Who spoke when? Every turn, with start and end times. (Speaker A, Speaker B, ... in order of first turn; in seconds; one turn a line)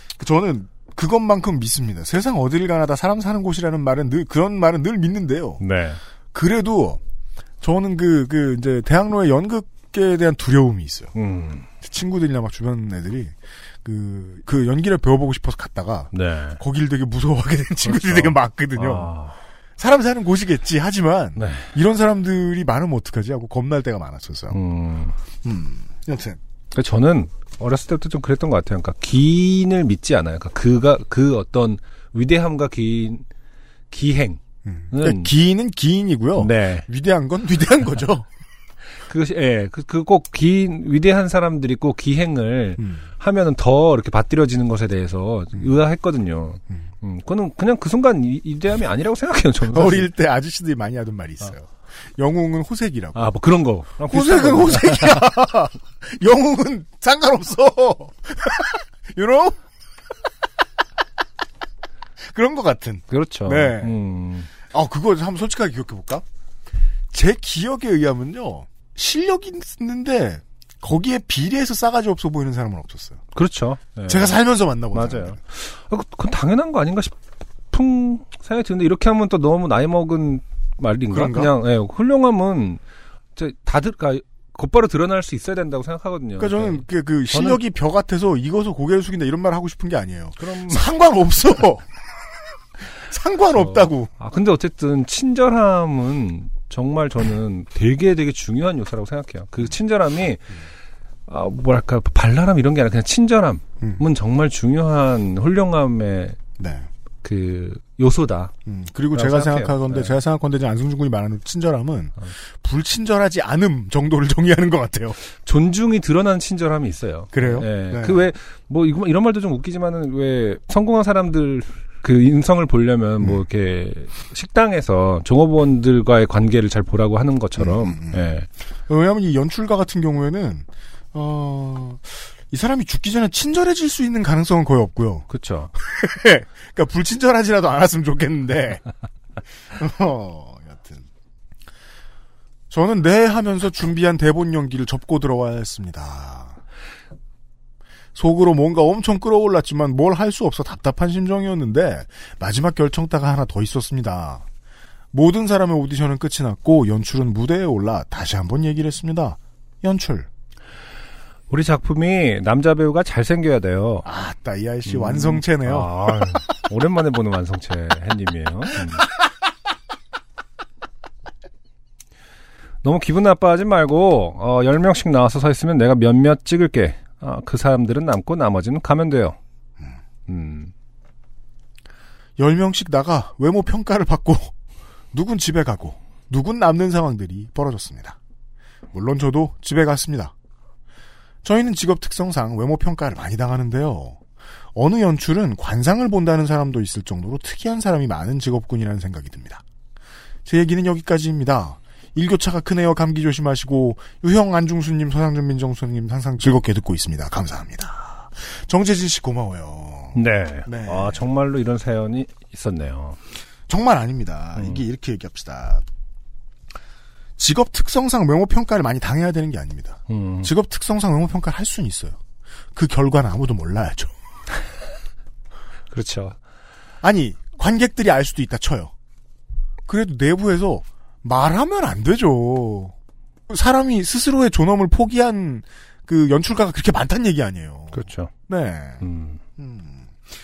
Speaker A: 0.2-5.6
Speaker B: 5.6-6.0
Speaker A: 6.3-7.0
Speaker A: 7.6-11.1
Speaker B: 11.2-11.7
Speaker A: 11.8-19.1
Speaker B: 16.1-16.6
Speaker B: 17.8-19.4
Speaker A: 19.8-24.6
Speaker B: 21.4-21.7
Speaker B: 24.5-25.1
Speaker A: 25.4-26.4
Speaker B: 26.7-33.2
Speaker B: 33.9-34.4
Speaker A: 34.7-38.3
Speaker B: 34.9-35.3
Speaker B: 36.4-36.9
Speaker B: 39.1-50.1
Speaker A: 42.8-43.0
Speaker A: 49.7-53.2
Speaker B: 53.1-55.2
Speaker A: 54.0-59.6
Speaker A: 62.2-64.0
Speaker B: 63.1-64.5
Speaker A: 64.7-66.2
Speaker A: 67.1-73.2
Speaker B: 73.3-74.4
Speaker A: 74.1-75.4
Speaker B: 74.9-77.2
Speaker B: 77.7-82.8
Speaker A: 81.1-81.5
Speaker B: 83.4-87.6
Speaker A: 86.4-91.8
Speaker B: 90.4-90.8
Speaker A: 93.1-94.1
Speaker B: 93.6-100.5
Speaker B: 101.3-106.4
Speaker A: 106.6-106.9
Speaker B: 107.2-108.5
Speaker A: 108.7-115.2
Speaker B: 109.1-110.2
Speaker B: 115.3-128.5
Speaker A: 117.3-118.3
Speaker A: 127.6-128.2
Speaker A: 128.9-138.8
Speaker B: 135.3-135.7
Speaker A: 139.8-141.1
Speaker A: 142.7-146.6
Speaker A: 148.2-154.4
Speaker A: 155.1-160.3
Speaker B: 161.5-164.1
Speaker A: 164.1-166.4
Speaker B: 164.9-169.0
Speaker B: 172.8-179.4
Speaker B: 180.3-180.7
Speaker A: 182.4-184.5
Speaker A: 185.1-188.2
Speaker A: 188.9-190.3
Speaker A: 191.4-194.2
Speaker A: 194.8-199.6
Speaker A: 200.4-211.2
Speaker B: 210.2-213.2
Speaker A: 213.7-215.8
Speaker B: 214.6-214.8
Speaker A: 217.4-222.2
Speaker B: 220.1-220.5
Speaker A: 222.7-224.1
Speaker B: 225.9-226.4
Speaker A: 227.0-228.9
Speaker A: 229.9-232.9
Speaker A: 233.5-239.0
Speaker B: 237.9-238.3
Speaker B: 239.0-239.4
Speaker A: 239.6-240.2